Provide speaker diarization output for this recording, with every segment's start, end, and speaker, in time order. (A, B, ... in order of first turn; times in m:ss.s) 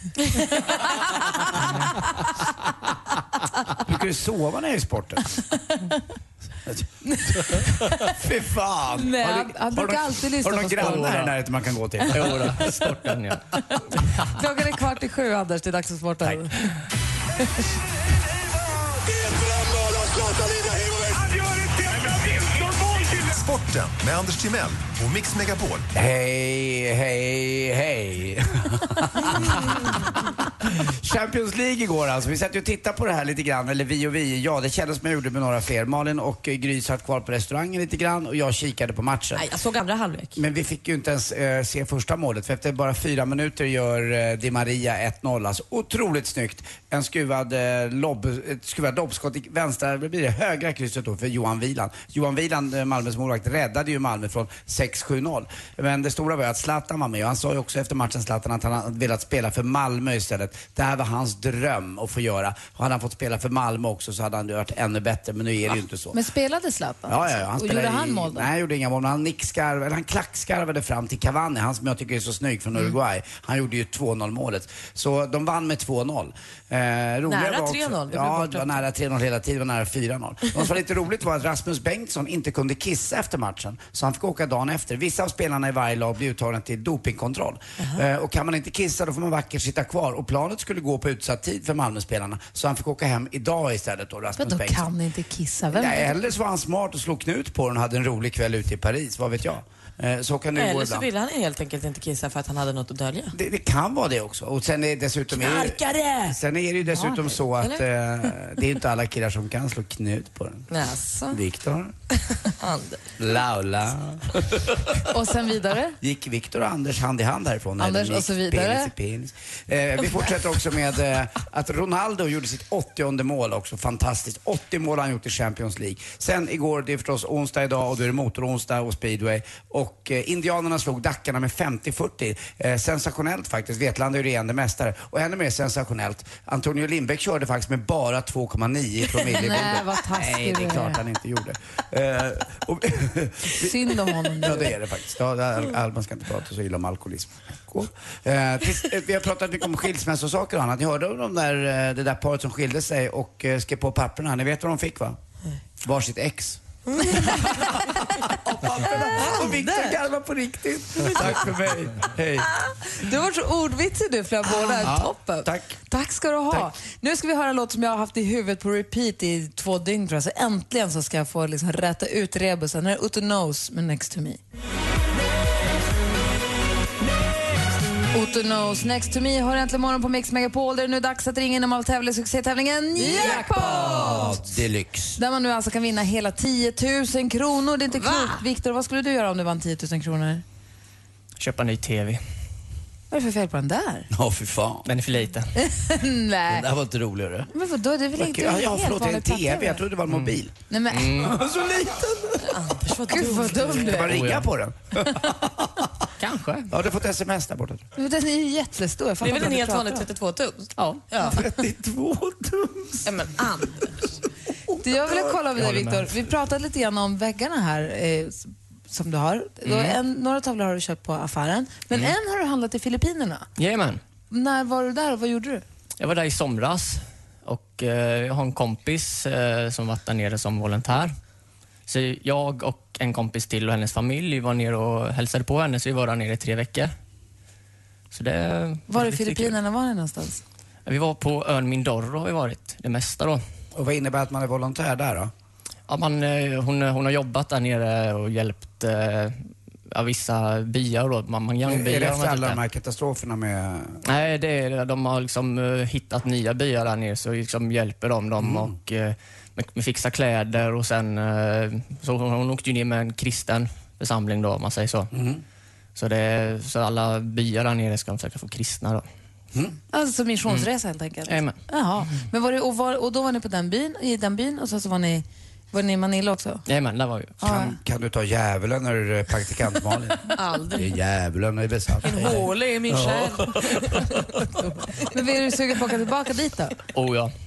0:00.7-0:01.5 A
0:03.8-0:05.3 B
0:06.6-0:12.4 B
0:07.1-0:08.1 A
0:09.0-0:11.2 A
0:10.8-0:11.3 C
0:12.1-0:13.4 C
0:14.3-0:16.6 A
0:22.2-0:25.9 D
0:26.0-0:39.4 B
0:39.4-0:40.4 E
0:40.4-1:06.2 B
1:06.1-1:08.5 A
1:07.1-1:34.9 B
1:17.3-1:18.8 E
1:34.4-1:36.2 A
1:35.7-1:41.1 B
1:40.6-1:43.3 E
1:43.3-1:50.7 B
1:45.3-1:46.4 E
1:46.9-1:47.4 A
1:47.6-1:47.8 E
1:50.7-1:51.4 E
1:51.3-1:51.9 B
1:52.3-1:53.0 E
1:53.2-1:55.0 B
1:55.1-1:56.0 A
1:56.0-2:35.2 B
1:57.8-1:58.9 A
2:19.3-2:21.0 A
2:23.6-2:24.8 A
2:35.8-2:36.6 B
2:37.1-2:42.5 B
2:37.4-2:37.6 A
2:38.9-2:40.0 A
2:42.8-2:54.4 A
2:44.8-2:45.8 B
2:58.1-3:04.5 A
3:03.0-3:05.2 B
3:05.2-3:10.4 A
3:11.4-3:12.2 C
3:13.1-3:14.1 A
3:14.1-3:14.9 B
3:14.8-3:15.5 C
3:15.6-3:16.7 A
3:16.5-3:17.5 B
3:17.5-3:19.8 A
3:18.2-3:20.5 B
3:20.1-3:20.4 C
3:20.7-3:21.3 A
3:20.9-3:21.4 C
3:21.3-3:22.5 B
3:22.4-3:24.0 E
3:23.1-3:24.0 A
3:23.8-3:25.9 B
3:24.1-3:24.5 C
3:26.2-3:26.7 C
3:26.7-3:27.9 B
3:28.0-3:30.1 A
3:29.2-3:31.4 E
3:30.8-3:31.0 C
3:31.3-3:33.1 B
3:33.0-3:33.9 E
3:34.8-3:43.5 A
3:35.5-3:36.2 C
3:39.6-3:40.0 C
3:43.6-3:44.0 C
3:44.3-3:45.6 A
3:46.0-3:51.1 C
3:51.9-3:56.9 C
3:58.1-3:59.6 C
3:58.9-4:00.4 A
4:00.9-4:03.4 C
4:03.8-4:05.3 B
4:05.9-4:09.3 C
4:09.9-4:12.6 C
4:11.6-4:14.0 B
4:14.0-4:25.1 C
4:18.4-4:18.7 B
4:25.1-4:25.4 B
4:26.0-4:29.0 C
4:29.9-4:36.7 A
4:31.3-4:31.6 C
4:36.7-4:37.4 C
4:37.4-4:37.8 A
4:37.4-4:43.4 B
4:40.3-4:40.9 E
4:42.0-4:44.5 E
4:45.0-4:46.8 A
4:46.9-4:47.3 C